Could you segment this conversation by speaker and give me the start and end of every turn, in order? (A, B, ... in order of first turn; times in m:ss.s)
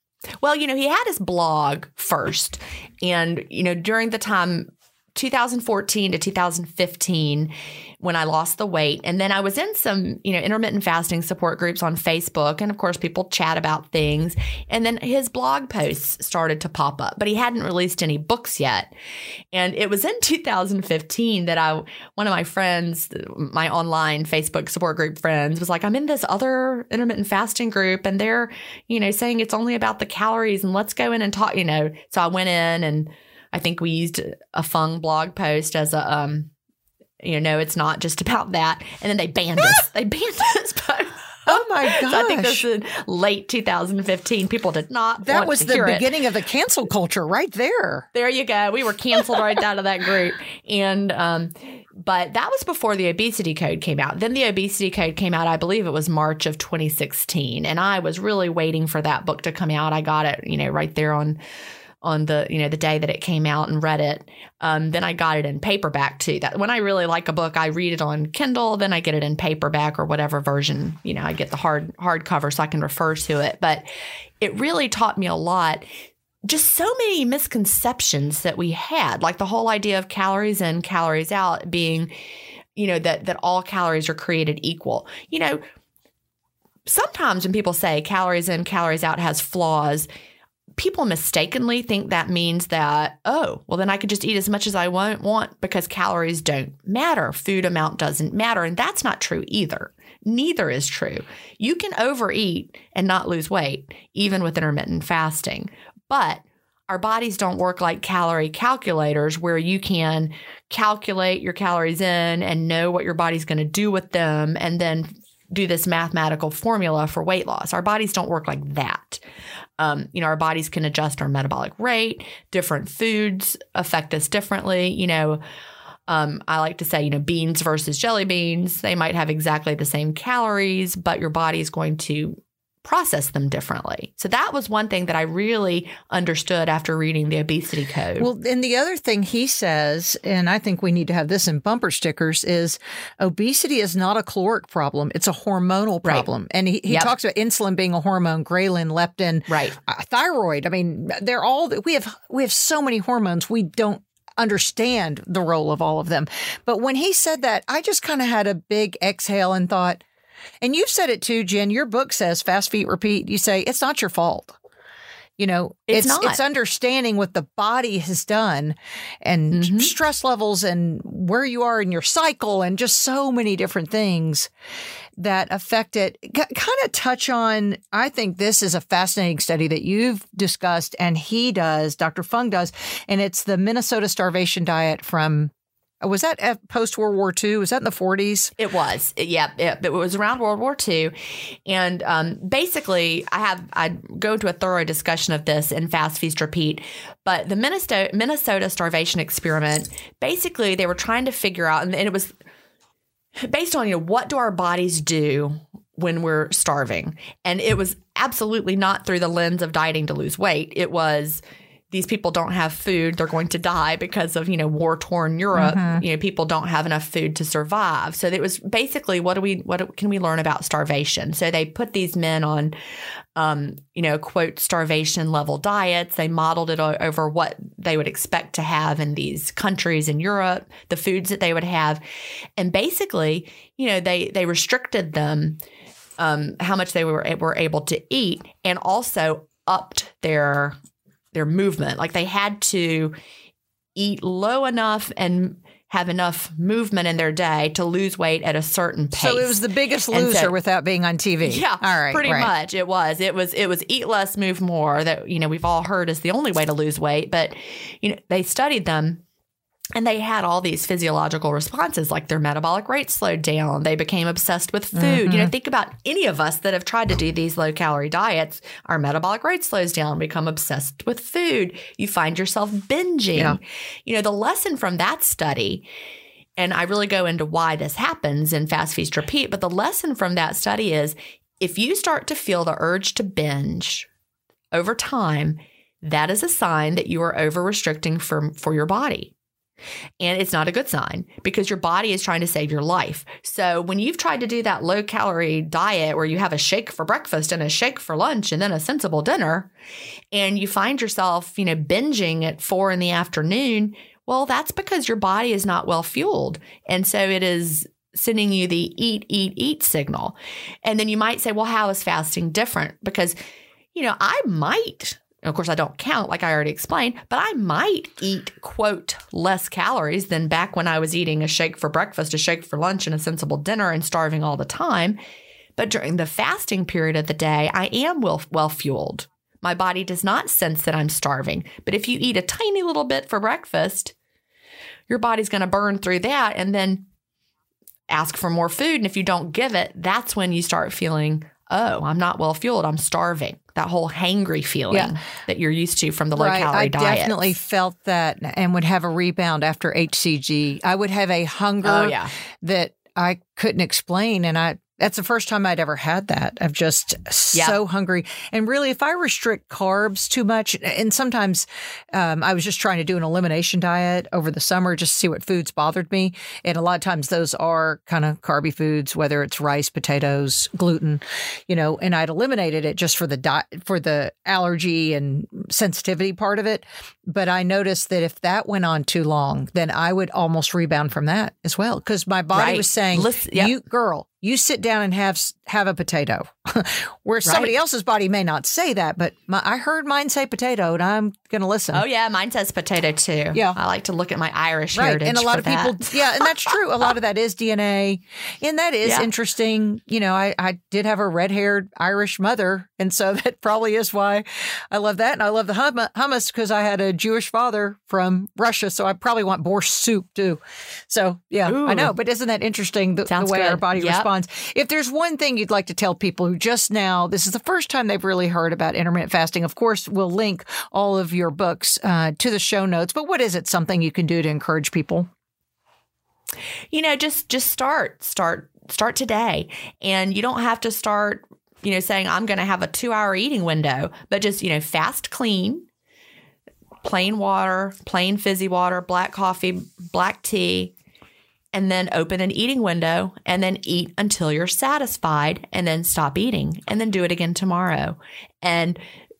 0:00.4-0:18.9 A
0:19.5-0:36.5 A
0:37.2-0:46.1 A
0:41.5-0:42.6 B
0:45.2-0:48.1 B
0:48.1-1:01.4 A
1:02.0-1:13.8 A
1:14.4-1:15.8 A
1:16.5-1:22.1 A
1:22.8-1:25.6 A
1:26.9-1:30.1 A
1:30.8-1:59.2 A
1:59.8-2:05.4 A
2:06.1-2:18.3 A
2:18.2-2:40.0 B
2:29.5-2:29.8 A
2:40.6-2:44.6 B
2:45.4-2:54.5 B
2:45.9-2:46.4 A
2:49.5-2:49.9 A
2:55.2-3:08.5 B
3:08.6-3:22.3 A
3:23.5-3:42.7 A
3:35.5-3:36.0 B
3:43.4-3:52.0 A
3:52.6-3:55.6 A
3:56.2-4:00.8 A
4:01.3-4:03.2 A
4:03.9-4:09.6 A
4:09.1-4:12.5 B
4:10.1-4:10.5 A
4:11.4-4:19.2 A
4:19.9-4:35.8 A
4:24.9-4:25.5 B
4:36.6-4:44.1 A
4:44.7-4:49.3 A
4:50.2-4:59.7 A
5:00.3-5:13.4 A
5:13.9-5:25.2 A
5:25.8-5:34.1 A
5:35.1-5:37.0 A
5:38.1-5:47.5 A
5:46.4-6:32.0 B
5:51.8-5:52.3 A
6:22.5-6:23.7 A
6:27.4-6:27.7 A
6:31.9-6:36.5 A
6:33.5-6:33.8 B
6:34.9-7:05.3 B
6:39.0-6:39.3 A
6:51.7-6:52.1 A
6:53.3-6:54.3 A
7:06.9-7:15.8 A
7:17.0-7:20.9 A
7:21.7-7:29.0 A